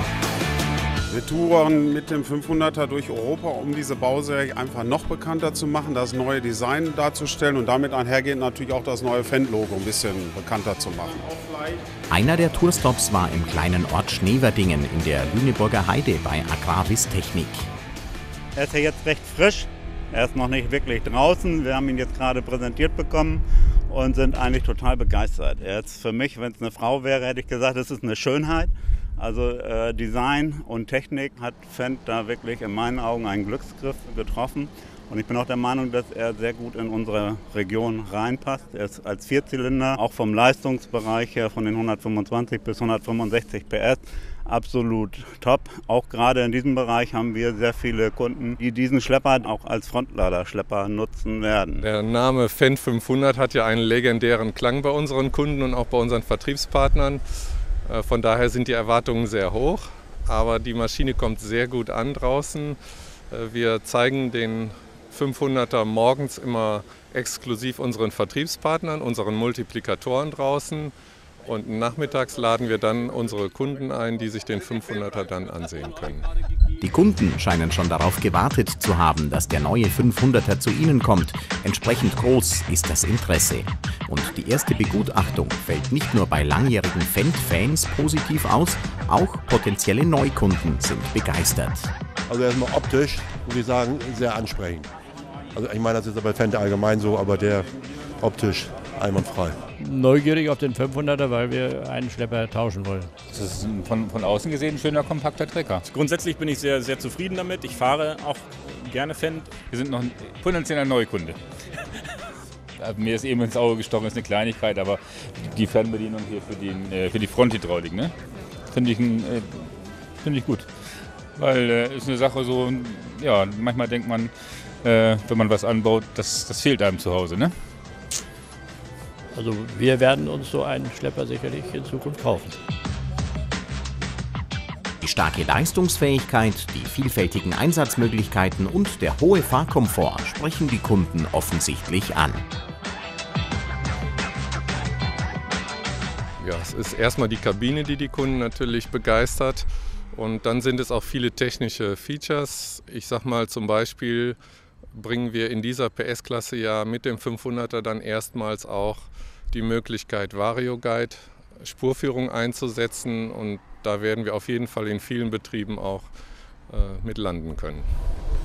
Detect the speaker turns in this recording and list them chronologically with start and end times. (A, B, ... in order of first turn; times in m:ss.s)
0:01.1-0:11.8 A
0:12.1-0:17.7 B
0:18.5-0:51.8 C
0:51.8-0:57.2 D
0:57.8-1:02.8 D
1:03.3-1:10.9 D
1:11.4-1:16.3 D
1:16.8-1:31.9 B
1:32.3-1:34.9 E
1:35.5-1:39.6 E
1:39.8-1:43.1 F
1:43.3-1:45.8 G
1:45.9-1:49.5 H
1:49.6-1:51.4 G
1:52.8-1:58.1 G
1:58.7-2:00.7 G
2:01.4-2:04.3 G
2:04.8-2:07.5 G
2:09.3-2:12.6 F
2:15.0-2:22.4 B
2:26.4-2:34.4 D
2:34.9-2:46.1 D
2:46.7-2:47.9 D